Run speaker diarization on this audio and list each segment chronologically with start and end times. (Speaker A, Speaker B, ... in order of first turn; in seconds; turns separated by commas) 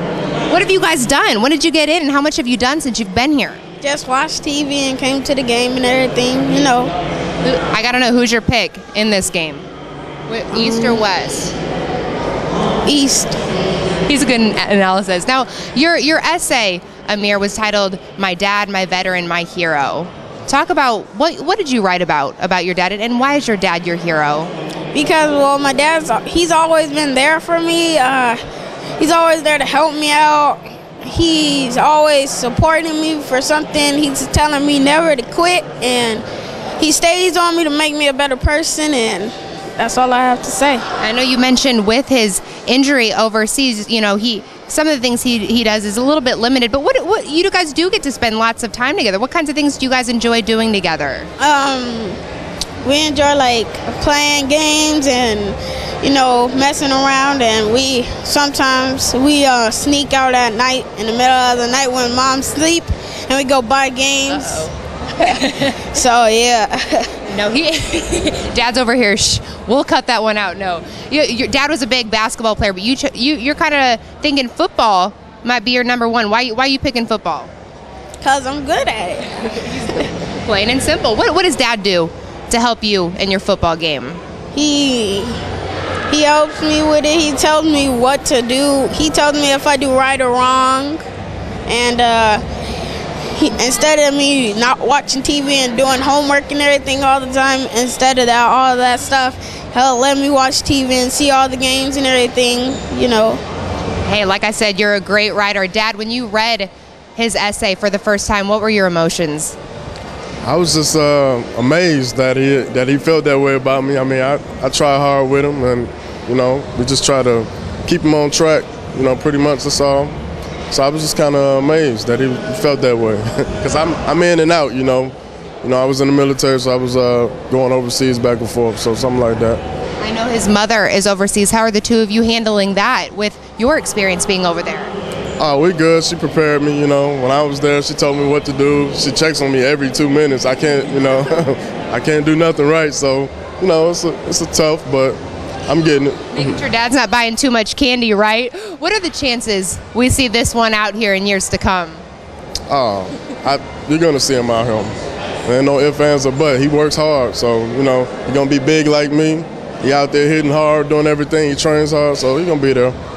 Speaker A: 0.5-3.6, Speaker B: 3.8-6.9, Speaker A: 7.4-9.7, Speaker A: 10.3-11.5, Speaker B: 10.5-11.0, Speaker B: 12.9-13.4, Speaker A: 14.1-24.5, Speaker B: 24.9-28.4, Speaker B: 29.0-36.2, Speaker B: 36.8-40.8, Speaker A: 41.0-51.3, Speaker B: 51.4-52.2, Speaker B: 52.8-64.7, Speaker A: 64.3-65.9, Speaker B: 65.2-67.1, Speaker A: 67.2-77.5, Speaker B: 78.2-80.0, Speaker A: 79.6-84.2, Speaker B: 84.5-85.4, Speaker B: 86.1-91.0, Speaker B: 91.7-92.4, Speaker B: 93.3-103.4, Speaker A: 104.0-109.6, Speaker C: 110.4-120.1, Speaker C: 120.7-129.6, Speaker A: 130.0-134.9, Speaker C: 135.4-146.6, Speaker A: 146.3-152.0, Speaker C: 152.7-154.9, Speaker C: 155.4-162.9